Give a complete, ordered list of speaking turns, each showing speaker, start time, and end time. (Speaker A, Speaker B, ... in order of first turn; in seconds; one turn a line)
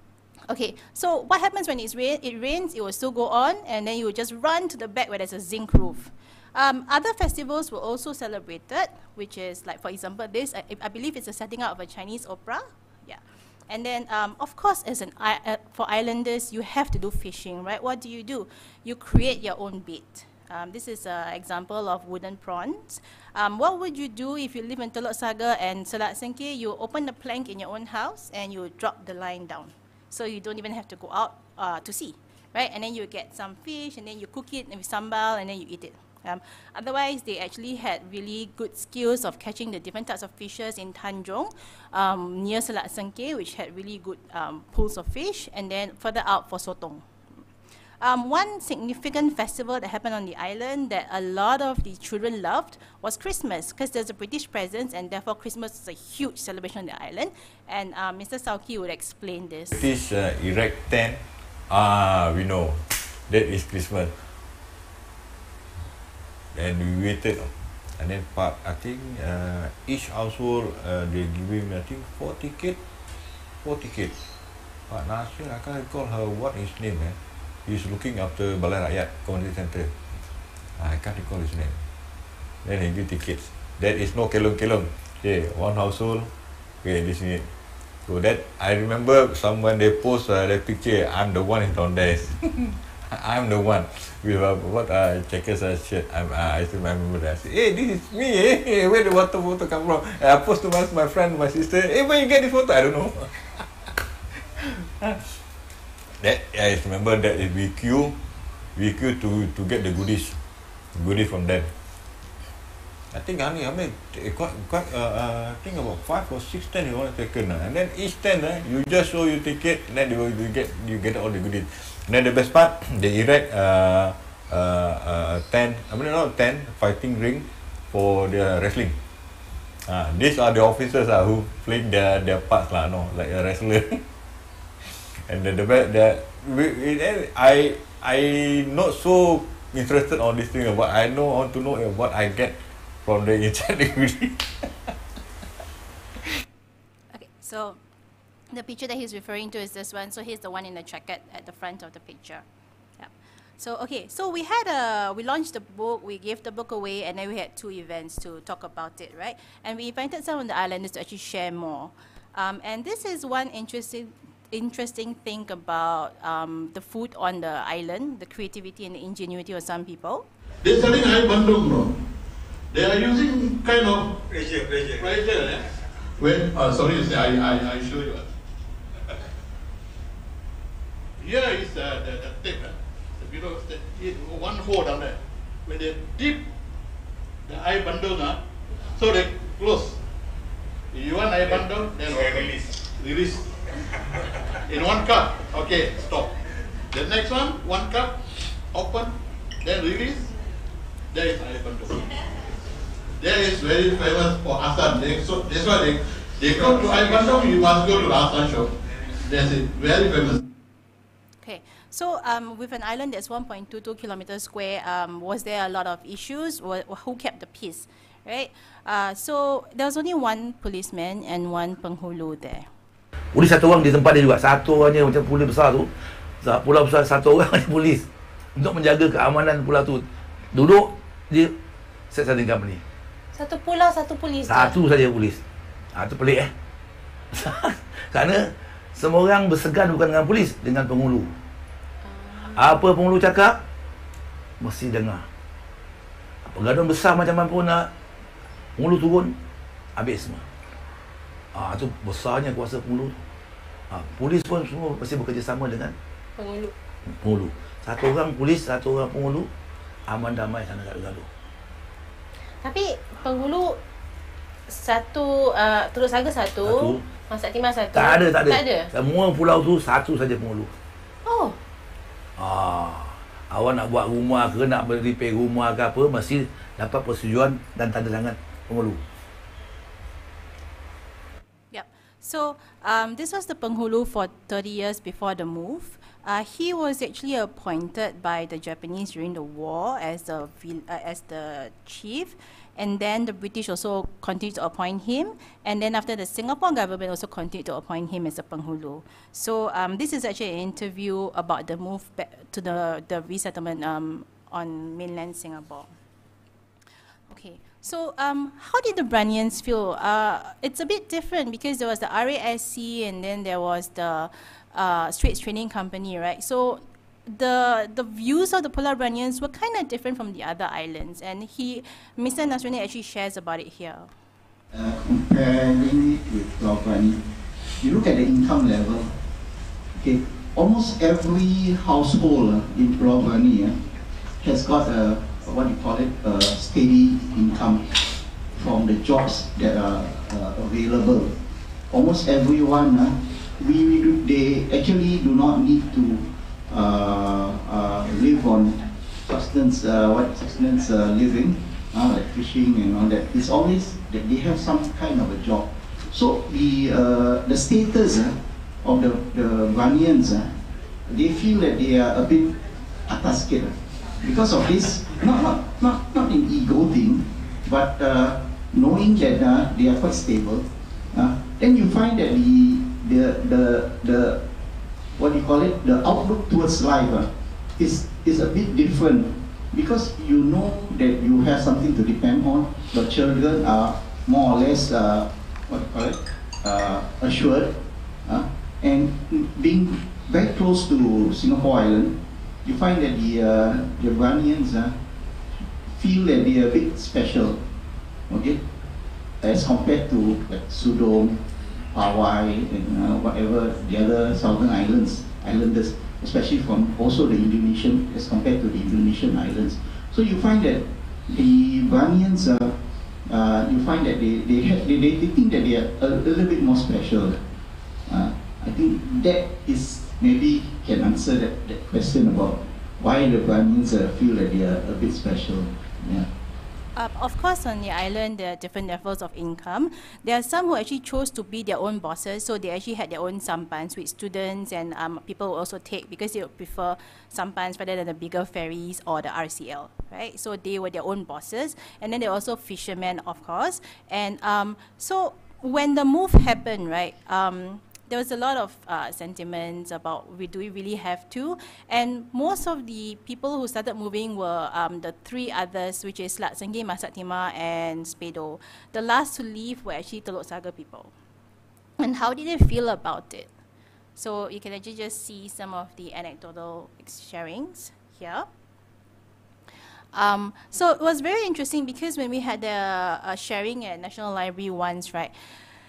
Speaker A: 0.5-47.0
Speaker A: 48.0-59.8
Speaker B: 59.7-64.2
Speaker B: 66.5-72.8
Speaker B: 73.6-74.2
Speaker B: 74.9-79.9
Speaker B: 80.8-81.8
Speaker B: 82.6-86.3
Speaker B: 86.8-87.5
Speaker B: 88.1-103.6
Speaker B: 106.2-108.2
Speaker B: 108.7-110.4
Speaker B: 111.0-111.7
Speaker B: 113.1-129.0
Speaker B: 129.9-134.0
Speaker B: 134.9-144.7
Speaker A: 147.1-147.8
Speaker A: 148.5-152.4
Speaker A: 153.0-170.3
Speaker C: 170.6-172.0
Speaker C: 172.7-174.3
Speaker C: 174.9-178.3
Speaker C: 181.2-186.4
Speaker C: 187.5-188.4
Speaker C: 188.9-190.0
Speaker C: 190.9-193.6
Speaker B: 191.5-192.8
Speaker C: 194.7-200.3
Speaker C: 201.1-202.2
Speaker C: 203.2-210.4
Speaker A: 211.4-222.7
Speaker D: 223.3-231.5
Speaker D: 232.1-232.8
Speaker E: 233.3-234.8
Speaker D: 234.5-235.4
Speaker D: 235.9-236.5
Speaker D: 237.3-241.3
Speaker E: 242.1-242.7
Speaker D: 242.5-243.6
Speaker D: 244.6-245.2
Speaker D: 246.4-247.9
Speaker D: 248.8-249.3
Speaker D: 249.9-250.4
Speaker D: 251.5-253.2
Speaker D: 253.9-255.9
Speaker E: 256.4-256.7
Speaker D: 257.2-259.5
Speaker D: 260.1-261.3
Speaker E: 262.6-263.8
Speaker E: 264.7-268.9
Speaker D: 266.6-267.0
Speaker D: 267.9-270.7
Speaker E: 271.2-271.6
Speaker D: 272.4-279.0
Speaker A: 281.7-305.9
Speaker A: 307.3-324.1
Speaker F: 324.7-329.1
Speaker F: 329.9-341.4
Speaker F: 341.9-374.4
Speaker F: 375.1-395.0
Speaker F: 395.8-397.7
Speaker F: 398.3-398.7
Speaker F: 399.4-417.4
Speaker F: 418.1-426.3
Speaker A: 426.9-461.1
Speaker A: 462.0-463.5
Speaker A: 464.2-468.5
Speaker A: 470.1-475.4